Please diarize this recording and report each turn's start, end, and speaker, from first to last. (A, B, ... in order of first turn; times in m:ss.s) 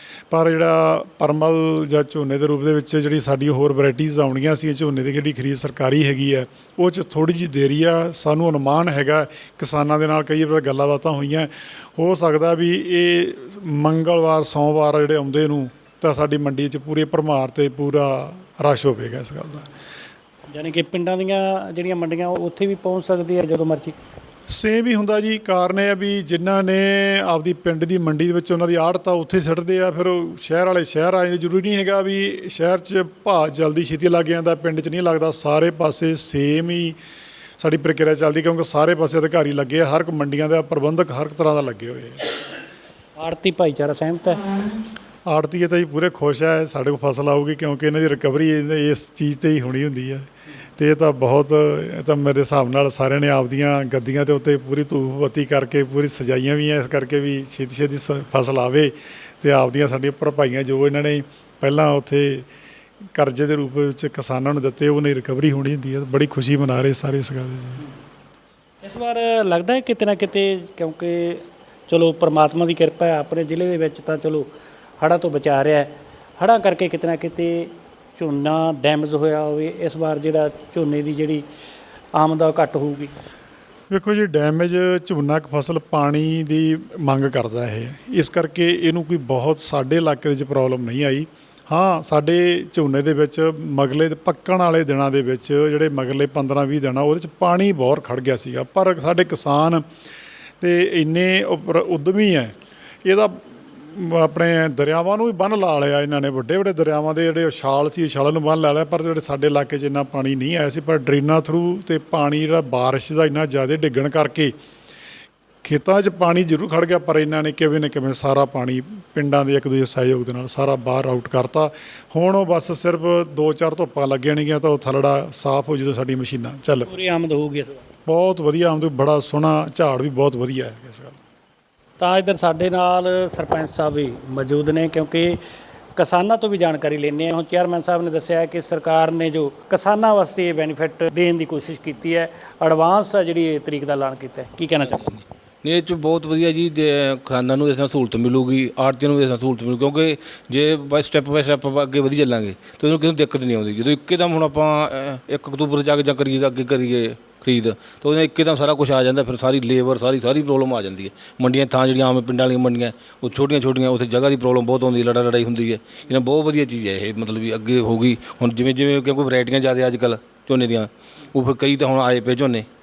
0:00.3-0:19.7 A
0:20.5-0:23.9 B
0:24.5-0:37.0 A
0:37.6-0:42.2 A
0:43.2-0:44.4 B
0:45.3-1:02.4 A
1:03.1-1:07.8 A
1:08.8-1:14.5 B
1:15.0-1:21.4 B
1:22.2-1:23.1 B
1:23.9-1:39.8 A
1:40.6-1:42.5 A
1:43.1-1:54.5 A
1:55.6-2:06.9 A
2:06.8-2:07.8 B
2:08.1-2:11.2 A
2:12.0-2:15.4 B
2:16.0-2:25.2 B
2:25.6-2:52.7 C